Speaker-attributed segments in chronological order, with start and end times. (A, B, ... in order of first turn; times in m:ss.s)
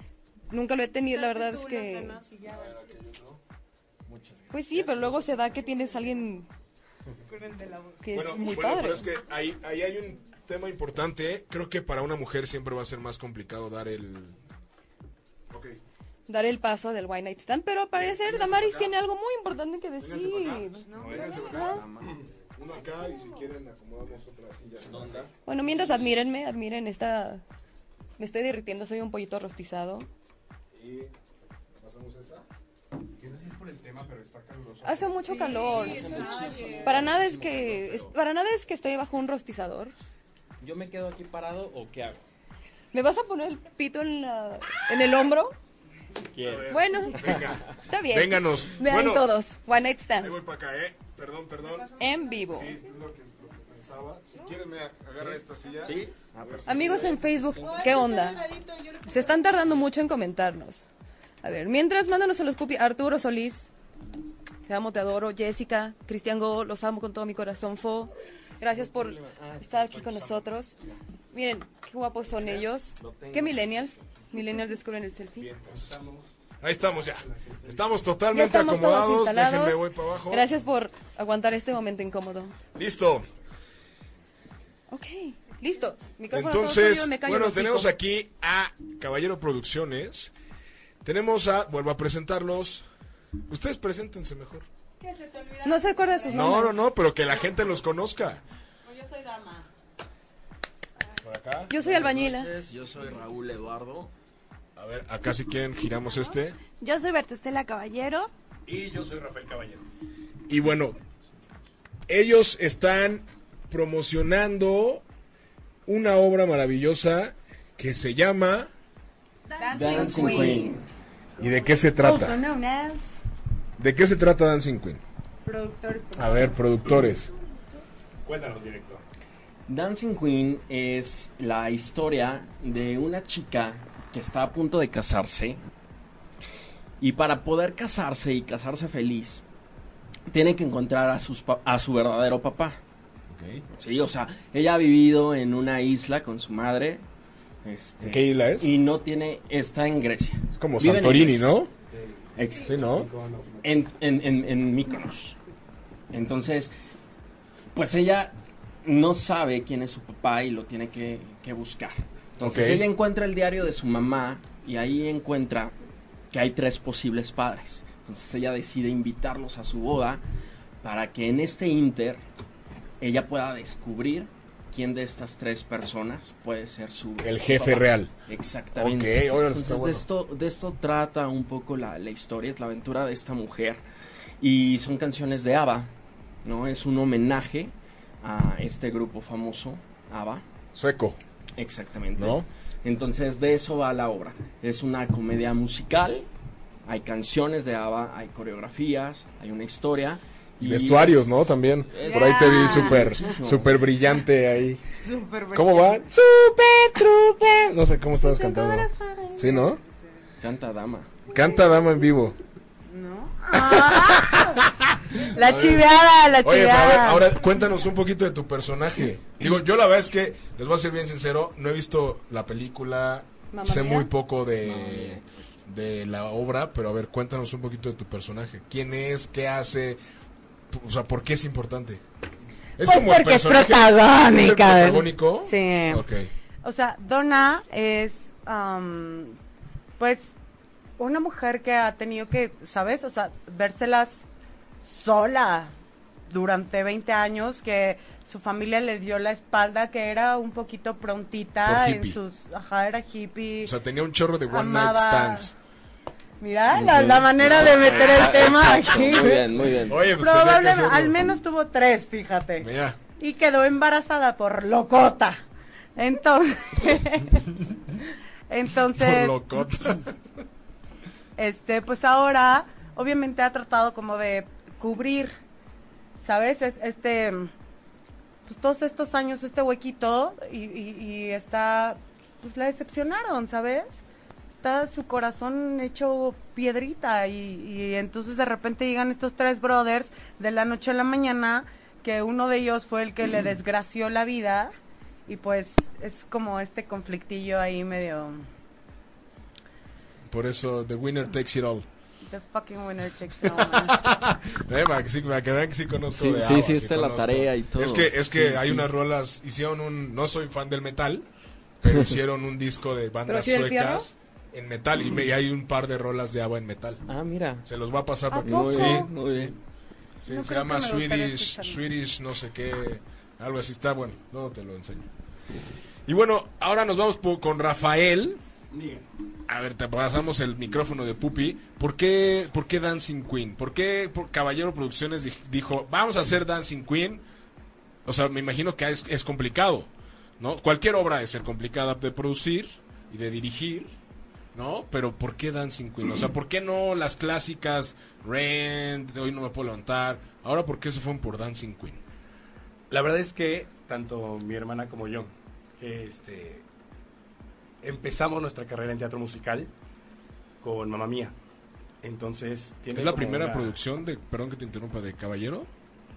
0:00.5-0:02.2 A
0:01.1-0:03.0 B
0:02.5-0:03.4 C
0:04.1-0:05.2 D
0:04.5-0:06.5 A
0:07.3-0:08.0 B
0:08.0-0:09.0 A
0:08.1-0:14.4 C
0:15.5-0:15.8 C
0:16.3-0:20.8 A
0:18.0-0:18.9 C
0:20.0-0:21.9 C
0:20.9-0:21.6 B
0:21.0-0:22.2 D
0:21.4-0:21.8 A
0:22.5-0:25.3 C
0:24.9-0:26.1 D
0:25.4-0:27.4 A
0:28.2-0:30.1 A
0:30.7-0:31.1 C
0:31.8-0:32.4 C
0:33.2-0:35.4 E
0:34.8-0:39.9 A
0:35.3-0:36.9 B
0:35.6-0:38.1 D
0:40.6-0:42.2 D
0:42.9-0:45.6 A
0:46.2-0:47.5 D
0:46.4-0:49.3 C
0:46.7-0:50.3 A
0:50.2-0:51.9 C
0:52.0-0:52.8 A
0:52.5-0:57.1 C
0:55.2-0:57.9 D
0:56.6-0:58.5 A
0:57.6-0:59.6 B
0:59.0-1:00.8 A
1:01.4-1:03.7 A
1:04.7-1:10.7 A
1:08.6-1:10.5 D
1:11.3-1:15.5 A
1:12.3-1:13.9 D
1:15.4-1:15.8 C
1:15.7-1:16.3 E
1:16.6-1:20.5 C
1:17.0-1:17.8 E
1:18.3-1:22.6 A
1:22.7-1:23.2 C
1:24.9-1:27.9 A
1:26.3-1:30.3 C
1:31.0-1:32.8 C
1:33.5-1:34.6 C
1:35.0-1:37.7 B
1:35.6-1:36.8 A
1:36.3-1:38.4 C
1:38.8-1:39.7 B
1:41.2-1:41.7 C
1:41.7-1:42.5 A
1:41.7-1:44.1 D
1:44.8-1:46.6 C
1:46.8-1:48.3 F
1:48.6-1:49.8 E
1:50.5-1:51.0 C
1:52.1-1:55.0 C
1:55.9-1:58.7 C
1:59.5-2:00.7 F
1:59.6-2:00.8 B
1:59.7-2:00.8 D
2:01.4-2:02.4 C
2:01.4-2:03.0 B
2:03.8-2:05.0 C
2:05.4-2:06.6 B
2:06.2-2:07.3 C
2:08.2-2:09.0 E
2:09.7-2:15.6 D
2:17.0-2:19.4 D
2:20.3-2:22.8 D
2:23.3-2:23.6 C
2:23.8-2:27.0 D
2:27.6-2:31.5 D
2:28.0-2:28.7 C
2:30.6-2:31.7 C
2:31.9-2:33.7 E
2:32.4-2:32.8 D
2:32.6-2:33.1 C
2:33.6-2:35.3 D
2:36.1-2:36.7 D
2:37.7-2:45.7 D
2:42.4-2:42.9 C
2:46.3-2:50.2 D
2:50.8-2:52.2 D
2:53.0-3:03.8 D
2:57.2-2:58.1 C
2:58.8-3:00.0 C
3:04.4-3:05.9 D
3:06.4-3:10.4 D
3:10.7-3:11.2 C
3:11.6-3:16.3 D
3:12.2-3:12.5 C
3:16.8-3:23.9 D
3:20.6-3:24.8 C
3:22.0-3:23.1 B
3:25.0-3:26.0 B
3:25.5-3:29.8 C
3:28.2-3:29.6 A
3:30.4-3:31.1 D
3:31.3-3:32.4 C
3:32.9-3:34.6 B
3:33.5-3:35.9 C
3:35.2-3:37.3 B
3:36.4-3:50.0 C
3:43.5-3:44.1 A
3:44.6-3:45.4 D
3:50.7-3:52.0 C
3:52.8-3:56.3 C
3:52.8-3:56.0 B
3:56.6-3:59.4 B
4:00.0-4:00.3 B
4:01.0-4:04.2 B
4:04.8-4:05.7 B
4:06.3-4:13.7 B
4:11.6-4:12.2 C
4:13.6-4:15.5 C
4:14.5-4:15.5 B
4:16.4-4:25.4 B
4:16.7-4:20.1 D
4:17.6-4:18.3 C
4:19.9-4:21.2 C
4:22.6-4:23.0 C
4:26.0-4:27.6 B
4:28.5-4:29.4 B
4:28.9-4:30.1 C
4:31.4-4:35.3 B
4:36.2-4:37.5 B
4:38.4-4:44.0 B
4:44.6-4:54.7 B
4:55.3-4:58.4 B
5:00.3-5:01.8 C
5:02.2-5:04.0 B
5:03.4-5:11.2 C
5:06.1-5:08.9 D
5:11.8-5:17.0 C
5:13.3-5:14.1 A
5:17.1-5:17.6 D
5:17.6-5:19.5 C
5:18.3-5:19.1 B
5:18.3-5:19.6 D
5:20.2-5:25.1 C
5:20.3-5:21.8 B
5:26.1-5:28.4 C
5:28.7-5:29.1 E
5:29.5-5:37.2 C
5:38.0-5:43.9 C
5:44.5-5:52.0 C
5:52.9-5:56.6 E
5:57.8-5:59.7 E
6:00.6-6:01.3 E
6:02.0-6:03.8 E
6:02.9-6:05.7 C